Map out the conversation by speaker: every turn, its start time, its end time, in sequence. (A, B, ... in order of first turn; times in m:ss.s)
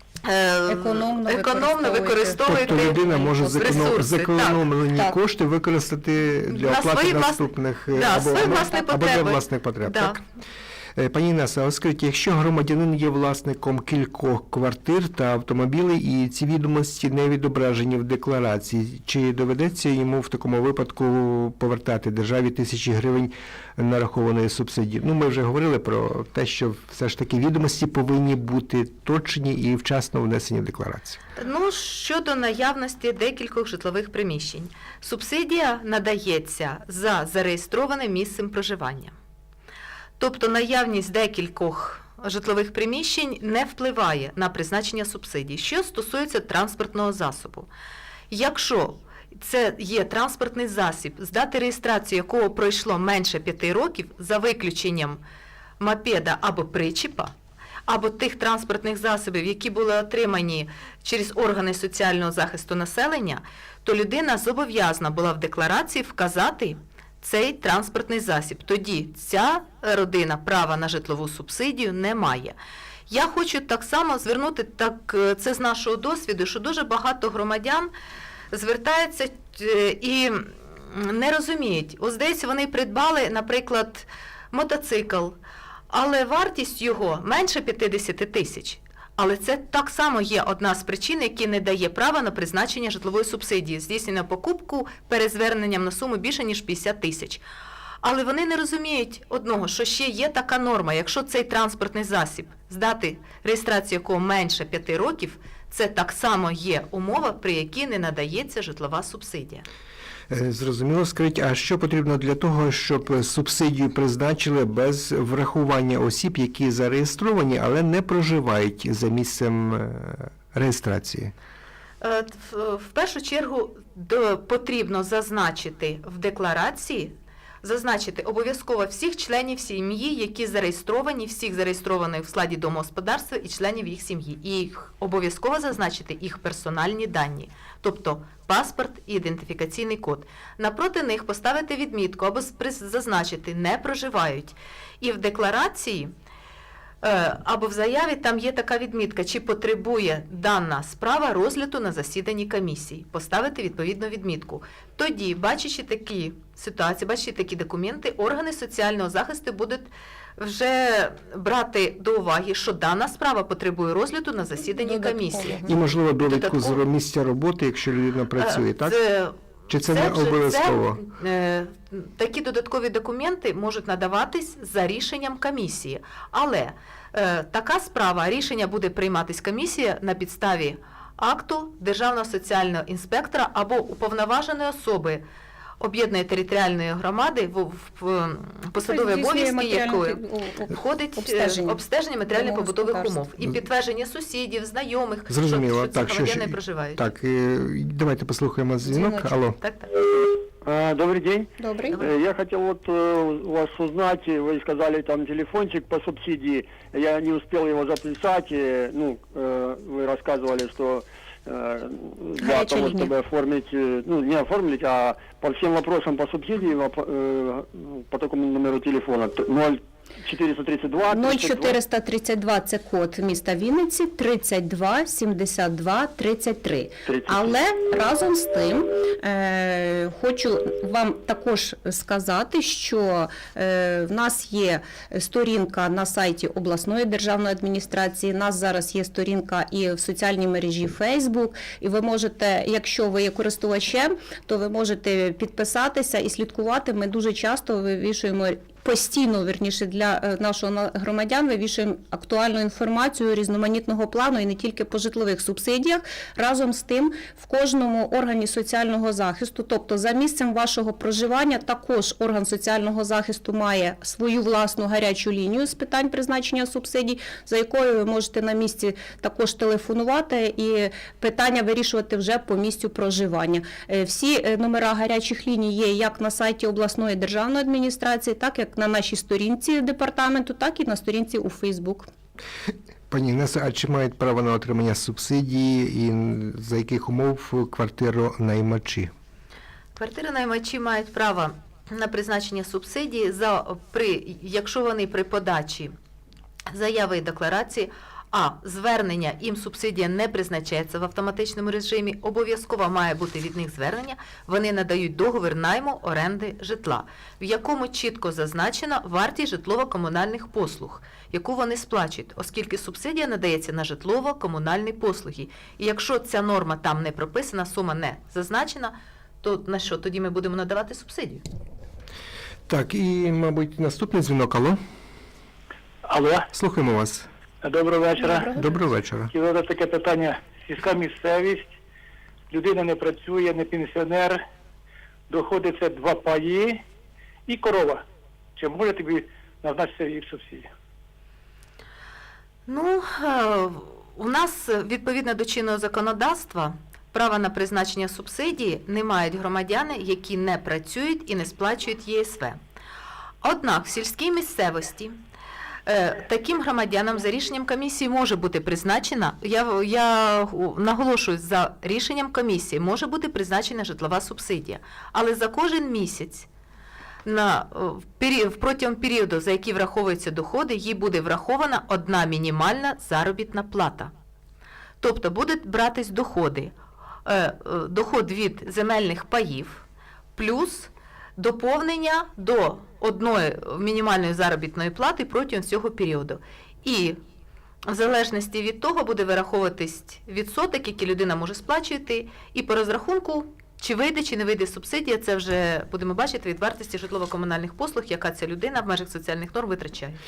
0:00.2-0:04.6 A
0:00.6-0:03.6 B
0:02.4-0:10.2 C
0:06.5-0:10.2 A
0:11.0-0:31.2 C
0:31.4-0:39.1 A
0:40.2-0:47.7 A
0:48.3-0:55.2 A
0:55.8-0:57.3 A
0:57.9-1:12.6 A
1:13.1-1:17.9 A
1:18.5-1:25.4 A
1:25.9-1:37.4 A
1:38.0-1:49.6 A
1:50.3-2:01.3 C
2:02.0-2:26.1 A
2:27.0-2:45.6 A
2:44.6-2:45.8 B
2:45.6-2:49.0 C
2:46.2-2:46.8 A
2:48.4-3:05.2 A
2:49.7-2:51.0 C
3:05.8-3:17.0 A
3:08.8-3:11.8 B
3:12.3-3:13.2 B
3:15.3-3:19.6 C
3:19.0-3:19.2 B
3:19.6-3:19.9 A
3:20.6-3:41.8 D
3:21.6-3:22.0 B
3:32.4-3:33.1 B
3:41.1-4:42.1 B
3:47.0-3:47.6 D
4:43.1-4:49.1 C
4:50.0-4:55.9 A
4:56.7-5:21.4 A
5:22.7-5:24.8 C
5:26.1-5:26.5 E
5:26.5-5:27.3 C
5:27.6-5:28.8 E
5:28.2-5:28.6 B
5:28.5-5:29.3 C
5:29.3-5:31.7 E
5:32.5-5:34.4 E
5:35.3-5:36.8 E
5:37.5-5:38.0 E
5:38.6-5:40.7 E
5:42.7-5:52.6 A
5:53.4-5:55.2 A
5:55.8-6:06.5 A
6:07.2-6:14.1 A
6:15.0-6:16.7 A
6:17.2-6:19.8 A
6:20.4-6:27.2 A
6:27.8-6:40.2 A